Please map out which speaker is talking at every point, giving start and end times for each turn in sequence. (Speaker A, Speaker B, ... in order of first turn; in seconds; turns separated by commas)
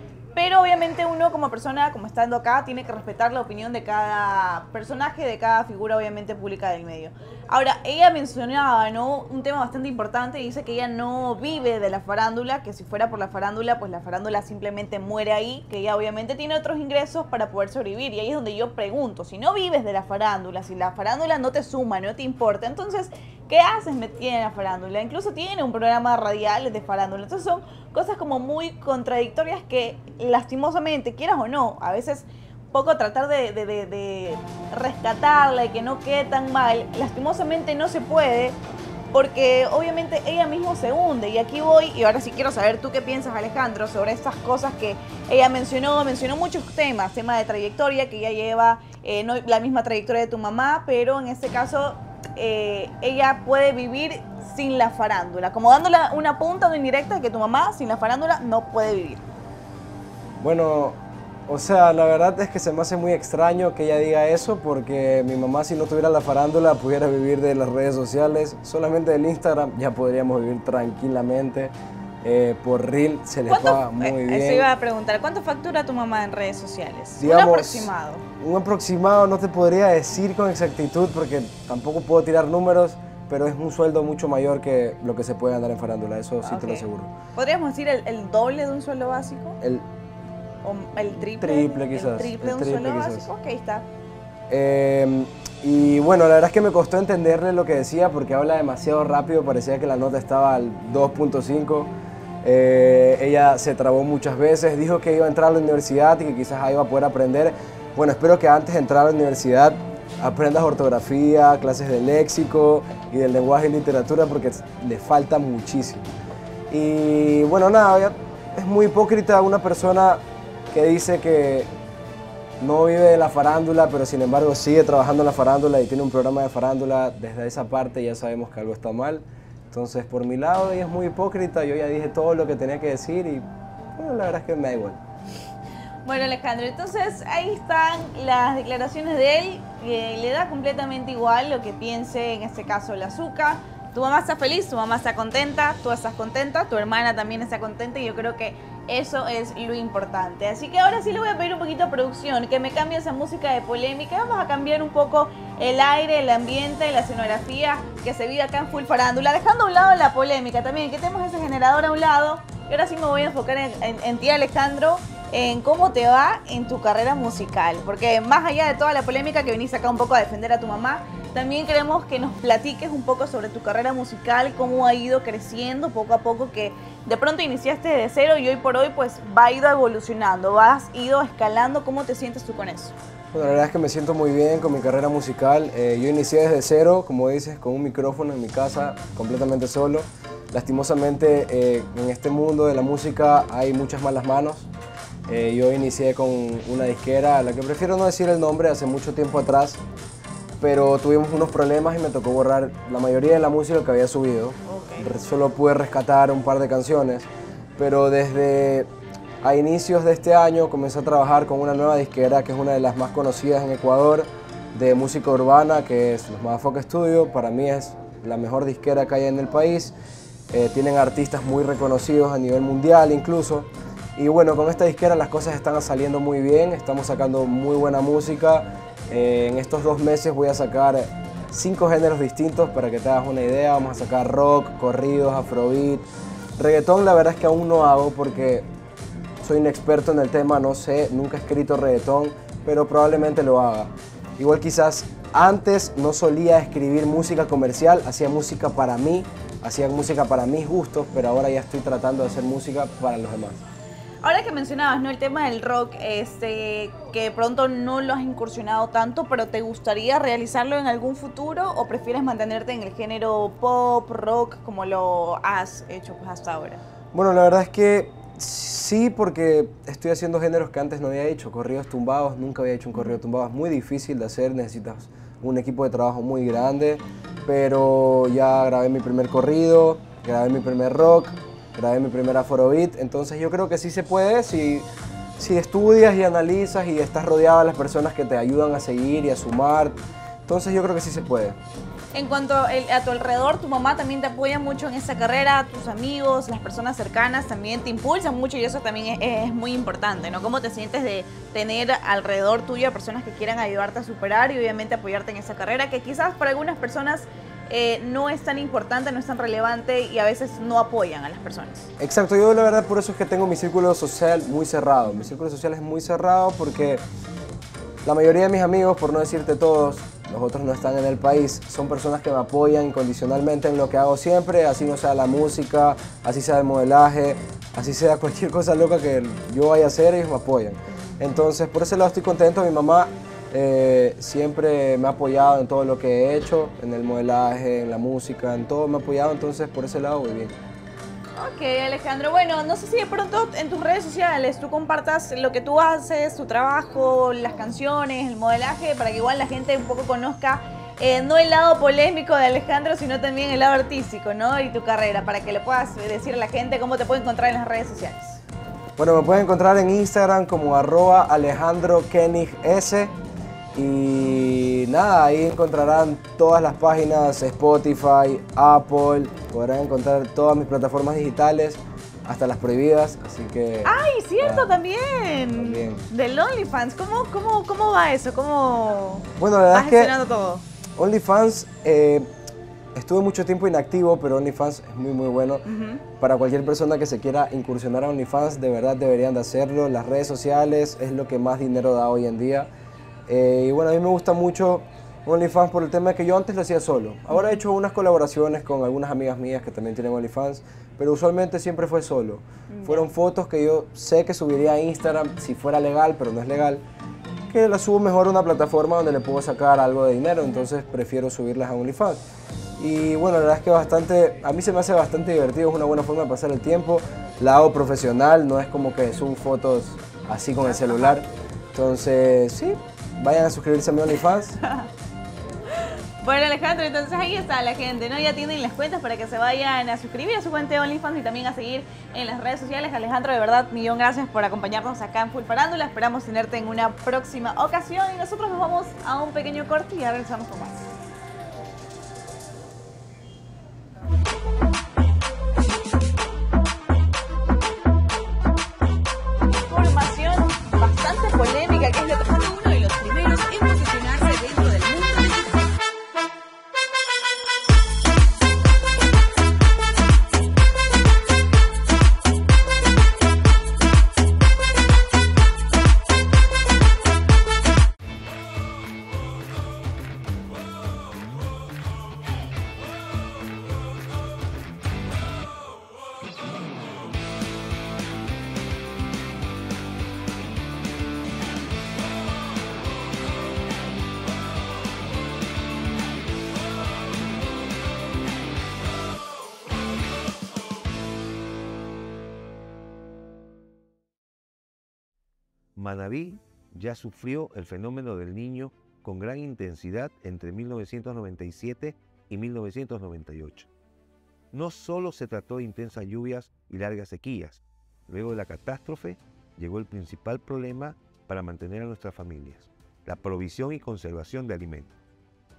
Speaker A: 0.3-38.6, Speaker A: 39.1-59.3, Speaker B: 60.4-74.7, Speaker A: 73.5-78.2, Speaker B: 77.2-87.1, Speaker A: 86.4-89.6, Speaker B: 89.6-89.9, Speaker A: 90.6-93.9, Speaker B: 91.4-93.3, Speaker B: 94.5-101.9, Speaker B: 102.4-116.0, Speaker B: 116.7-121.7, Speaker B: 122.6-135.0, Speaker A: 136.1-182.9, Speaker B: 183.3-194.7, Speaker B: 195.3-199.8, Speaker B: 200.6-208.9, Speaker A: 204.7-205.1, Speaker B: 209.4-219.9, Speaker B: 220.5-236.1, Speaker B: 236.6-238.7, Speaker B: 239.4-253.6, Speaker A: 254.2-266.8, Speaker B: 267.1-284.9, Speaker B: 285.4-291.6, Speaker A: 292.1-311.9, Speaker B: 312.0-317.0, Speaker B: 318.0-340.6, Speaker A: 341.4-358.4, Speaker B: 359.0-363.1, Speaker B: 363.8-374.7, Speaker A: 373.9-380.6, Speaker B: 375.5-376.0, Speaker B: 379.4-380.1, Speaker B: 381.0-382.3, Speaker B: 382.9-385.7, Speaker A: 385.7-386.0, Speaker B: 386.2-392.7, Speaker B: 393.3-406.8, Speaker A: 402.7-403.1, Speaker B: 407.5-412.2, Speaker B: 412.8-424.6, Speaker A: 420.7-421.2, Speaker A: 426.2-440.9, Speaker A: 449.7-455.3, Speaker C: 495.8-503.7, Speaker C: 504.5-514.9